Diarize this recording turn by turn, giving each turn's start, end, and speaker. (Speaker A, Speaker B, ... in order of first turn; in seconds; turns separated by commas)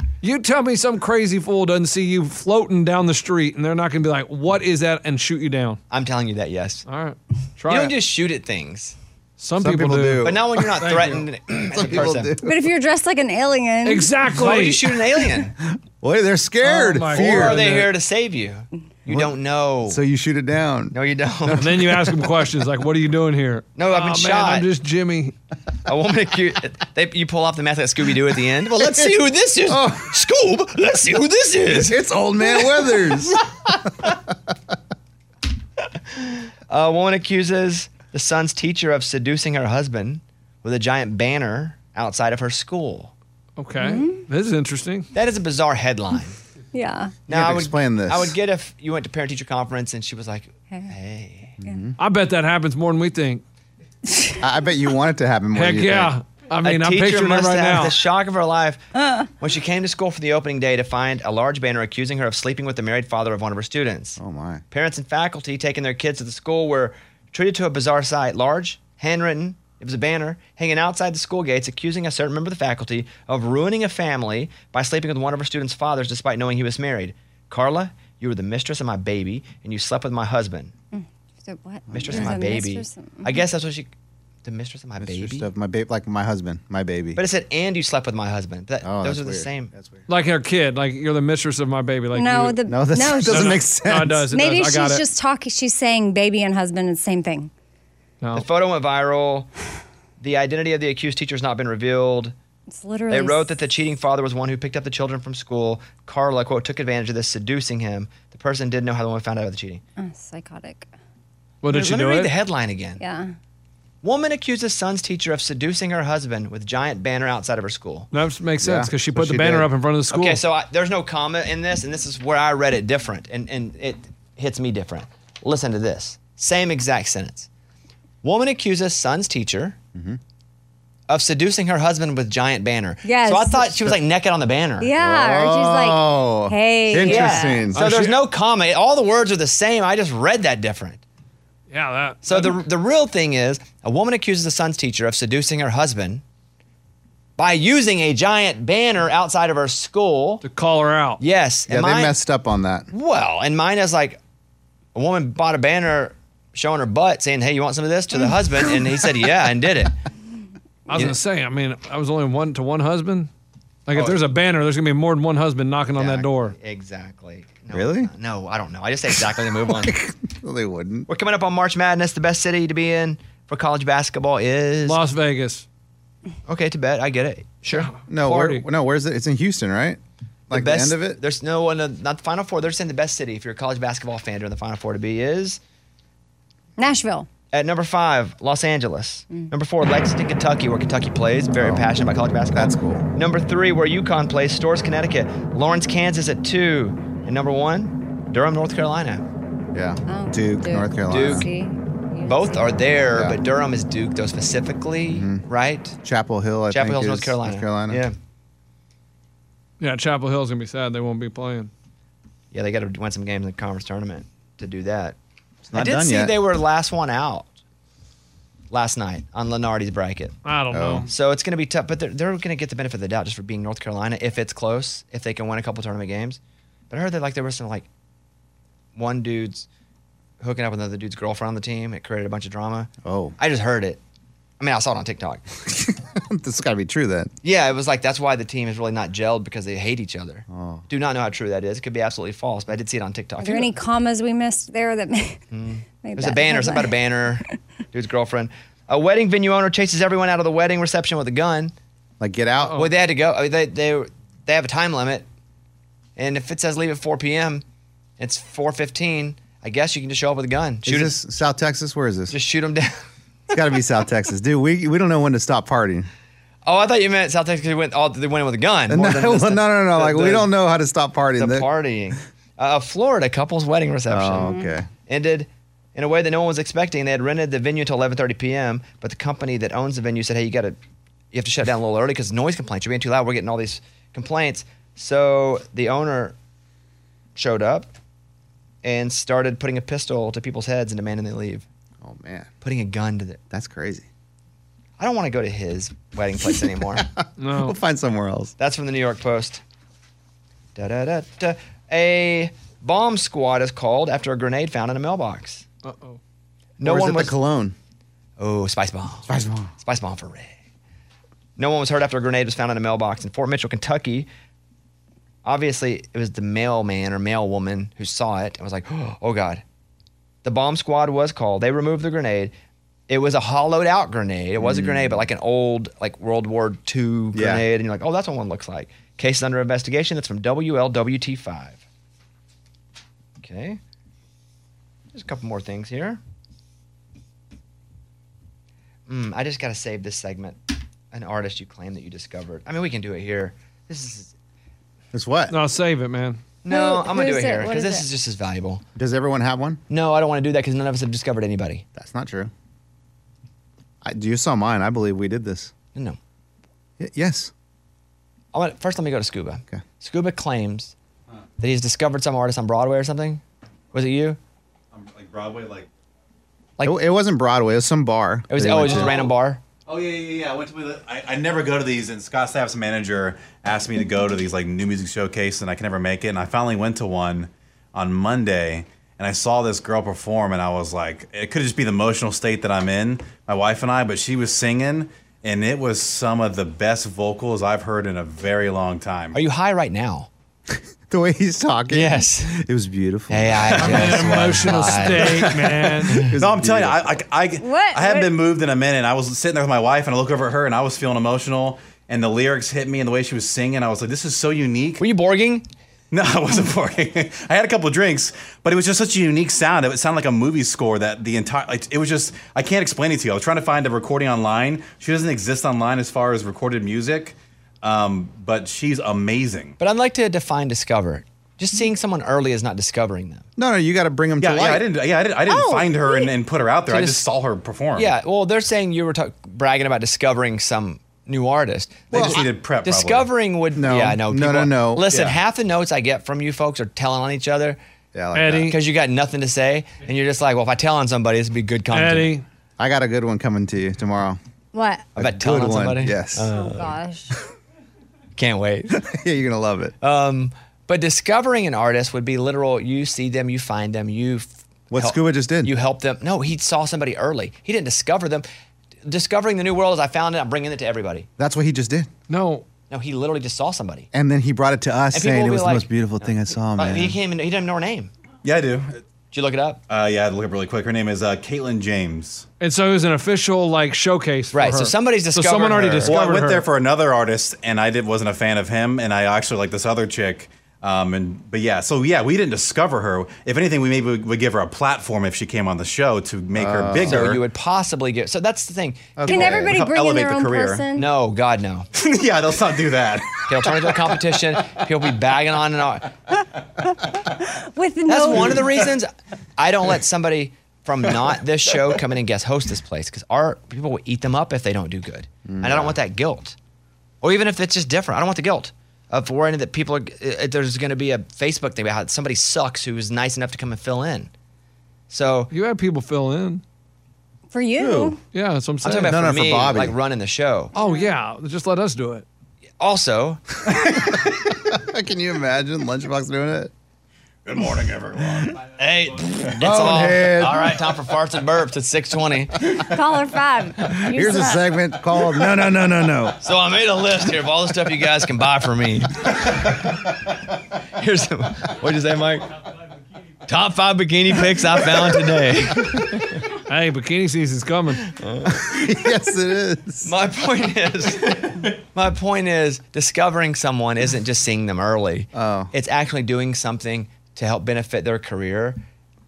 Speaker A: 0.2-5.8, Speaker B: 5.9-6.8, Speaker A: 6.9-7.9, Speaker B: 7.7-9.0, Speaker A: 9.4-11.2, Speaker C: 9.6-10.5, Speaker B: 10.2-12.3, Speaker C: 11.7-12.6, Speaker D: 12.4-14.1, Speaker A: 13.8-14.8, Speaker B: 14.3-15.5, Speaker C: 16.0-17.6, Speaker A: 16.6-17.9, Speaker B: 17.1-20.0, Speaker C: 19.1-19.3, Speaker C: 19.9-20.9, Speaker B: 20.9-21.8, Speaker A: 21.6-25.4, Speaker B: 23.8-24.6, Speaker B: 25.9-32.0, Speaker C: 28.8-29.1, Speaker C: 29.7-30.1, Speaker C: 31.7-33.4, Speaker B: 36.1-43.1, Speaker A: 43.6-45.1, Speaker D: 43.8-44.2, Speaker B: 45.1-46.4, Speaker D: 46.7-47.2, Speaker B: 47.3-51.6, Speaker C: 47.3-48.4, Speaker C: 51.6-51.9, Speaker A: 52.0-53.4, Speaker D: 54.1-54.4, Speaker C: 54.4-56.1, Speaker A: 55.5-58.0, Speaker B: 56.6-58.8, Speaker B: 59.4-64.2, Speaker C: 64.2-64.6, Speaker B: 64.7-80.7, Speaker D: 80.9-83.4, Speaker C: 81.9-82.4, Speaker B: 81.9-83.9, Speaker B: 84.4-85.5, Speaker C: 85.0-87.2, Speaker B: 87.2-89.7, Speaker C: 88.8-90.0, Speaker A: 90.1-92.6, Speaker D: 92.1-93.6, Speaker C: 92.7-94.2, Speaker A: 93.2-95.0, Speaker D: 94.3-97.5, Speaker A: 98.2-98.5, Speaker B: 98.3-99.5, Speaker B: 100.2-102.3, Speaker D: 102.7-103.6, Speaker B: 103.1-109.8, Speaker D: 110.0-110.9, Speaker A: 111.6-112.3, Speaker B: 111.7-113.0, Speaker D: 113.0-113.3, Speaker B: 114.0-118.1, Speaker A: 118.1-120.4, Speaker C: 118.6-119.7, Speaker B: 120.1-127.5, Speaker B: 128.2-129.8, Speaker B: 131.1-134.9, Speaker D: 133.0-133.9, Speaker D: 134.8-137.7, Speaker C: 135.0-137.8, Speaker B: 137.0-141.0, Speaker A: 137.8-138.2, Speaker A: 141.7-142.6, Speaker B: 142.2-146.2, Speaker B: 147.4-150.4, Speaker A: 150.4-151.2, Speaker B: 151.2-152.2, Speaker C: 151.7-152.9, Speaker B: 152.9-154.2, Speaker B: 154.9-159.9, Speaker A: 160.9-163.3, Speaker A: 163.9-166.6, Speaker B: 163.9-164.2, Speaker B: 165.9-169.9, Speaker C: 167.7-168.1, Speaker C: 169.6-171.1, Speaker B: 171.1-175.0, Speaker A: 174.8-175.6, Speaker B: 176.5-177.9, Speaker A: 177.7-178.6, Speaker C: 178.1-180.0, Speaker C: 180.5-181.2, Speaker B: 180.5-185.6, Speaker D: 186.8-187.3, Speaker B: 187.5-199.2, Speaker C: 191.6-193.1, Speaker C: 199.7-201.5, Speaker D: 200.1-202.8, Speaker B: 201.1-201.4, Speaker B: 202.2-206.0, Speaker C: 205.1-205.4, Speaker C: 206.0-208.0, Speaker B: 206.7-208.1, Speaker A: 209.8-211.7, Speaker B: 212.5-215.2, Speaker C: 215.6-216.4, Speaker B: 215.7-217.5, Speaker B: 218.7-220.4, Speaker A: 220.4-221.1, Speaker C: 220.7-221.1, Speaker B: 221.1-227.9, Speaker B: 228.9-229.7, Speaker B: 230.4-234.0, Speaker C: 233.0-233.3, Speaker B: 234.6-235.4, Speaker C: 235.6-237.3, Speaker B: 237.4-243.7, Speaker C: 240.5-240.8, Speaker D: 243.4-245.4, Speaker B: 245.5-251.7, Speaker D: 246.0-246.9, Speaker C: 252.2-252.9, Speaker B: 252.7-255.2, Speaker B: 256.2-257.6, Speaker B: 258.2-261.2, Speaker C: 260.9-262.4, Speaker B: 262.3-263.0, Speaker C: 263.5-266.1, Speaker B: 266.6-270.5, Speaker C: 268.9-271.7, Speaker B: 271.4-274.5, Speaker C: 274.1-274.9, Speaker D: 274.4-274.8, Speaker B: 275.1-280.8, Speaker B: 281.3-286.4, Speaker B: 287.4-287.9, Speaker B: 288.8-291.6, Speaker C: 292.0-292.5, Speaker B: 292.6-293.4, Speaker C: 293.5-294.1, Speaker B: 295.0-297.1, Speaker C: 296.9-298.5, Speaker A: 297.4-297.8, Speaker B: 298.6-299.6, Speaker B: 300.8-305.6, Speaker A: 305.8-306.2, Speaker B: 306.8-307.4, Speaker C: 306.8-307.8, Speaker B: 308.4-310.6, Speaker C: 309.3-309.7, Speaker B: 311.6-314.3, Speaker B: 315.4-319.6, Speaker B: 320.4-322.5, Speaker B: 323.1-331.8, Speaker C: 324.6-325.3, Speaker C: 327.3-327.6, Speaker B: 333.4-333.8, Speaker B: 335.1-336.2, Speaker B: 339.1-340.6, Speaker B: 341.1-344.3, Speaker C: 345.1-345.6, Speaker A: 345.5-346.4, Speaker B: 346.6-348.8, Speaker D: 346.7-348.1, Speaker C: 348.9-349.8, Speaker B: 349.9-351.9, Speaker C: 351.9-352.5, Speaker C: 354.0-355.7, Speaker C: 357.0-357.5, Speaker B: 358.5-360.9, Speaker B: 361.6-363.4, Speaker B: 363.9-364.4, Speaker E: 364.9-365.9, Speaker C: 366.8-369.3, Speaker B: 368.5-369.6, Speaker E: 368.9-369.2, Speaker E: 369.9-389.4, Speaker B: 389.3-390.3, Speaker C: 390.7-394.8, Speaker B: 391.9-392.6, Speaker B: 393.3-396.3, Speaker A: 393.8-396.2, Speaker E: 395.3-405.0, Speaker C: 396.2-397.1, Speaker D: 397.6-398.3, Speaker B: 405.0-405.6, Speaker E: 406.1-419.8, Speaker B: 419.8-423.5, Speaker C: 423.6-424.9, Speaker E: 424.4-428.1, Speaker D: 425.5-426.3, Speaker B: 426.9-427.2, Speaker B: 427.9-437.8, Speaker E: 432.1-433.3, Speaker C: 432.1-432.4, Speaker C: 433.8-435.4, Speaker C: 438.1-438.7, Speaker A: 438.3-438.8, Speaker B: 438.7-442.3, Speaker A: 441.9-442.4, Speaker C: 442.8-444.4, Speaker D: 444.7-445.1, Speaker B: 445.1-446.9, Speaker C: 445.2-446.6, Speaker D: 446.6-447.4, Speaker B: 448.4-449.0, Speaker C: 448.9-449.9, Speaker B: 450.0-458.4, Speaker C: 454.9-455.7, Speaker B: 459.1-461.3, Speaker C: 461.4-462.1, Speaker A: 462.3-462.6, Speaker B: 462.9-464.1, Speaker C: 464.1-467.1, Speaker B: 465.1-468.1, Speaker E: 468.4-469.0, Speaker B: 469.3-469.8, Speaker E: 469.9-472.4, Speaker A: 472.6-476.6, Speaker B: 474.5-476.1, Speaker E: 476.1-487.4, Speaker C: 486.6-487.4, Speaker B: 487.0-489.6, Speaker C: 489.2-489.8, Speaker D: 489.3-491.1, Speaker E: 489.3-490.9, Speaker B: 490.9-491.9, Speaker E: 491.9-494.1, Speaker B: 493.4-496.1, Speaker D: 497.4-498.7, Speaker B: 498.1-506.6, Speaker C: 505.4-506.0, Speaker B: 507.2-514.3, Speaker B: 515.1-515.5, Speaker A: 515.5-516.6, Speaker D: 517.5-518.2, Speaker C: 517.8-518.1, Speaker A: 518.3-519.1, Speaker B: 518.8-520.7, Speaker C: 519.0-519.9, Speaker A: 520.7-522.2, Speaker D: 520.8-521.1, Speaker B: 522.8-523.4, Speaker C: 523.7-526.7, Speaker E: 527.5-528.1, Speaker B: 528.6-532.7, Speaker C: 529.5-530.7, Speaker D: 532.7-534.7, Speaker C: 534.1-536.4, Speaker B: 536.4-539.6, Speaker B: 541.0-542.5, Speaker B: 543.5-546.4, Speaker A: 546.7-548.1, Speaker B: 548.1-548.8, Speaker C: 548.5-550.1, Speaker B: 550.0-558.8, Speaker C: 555.3-555.7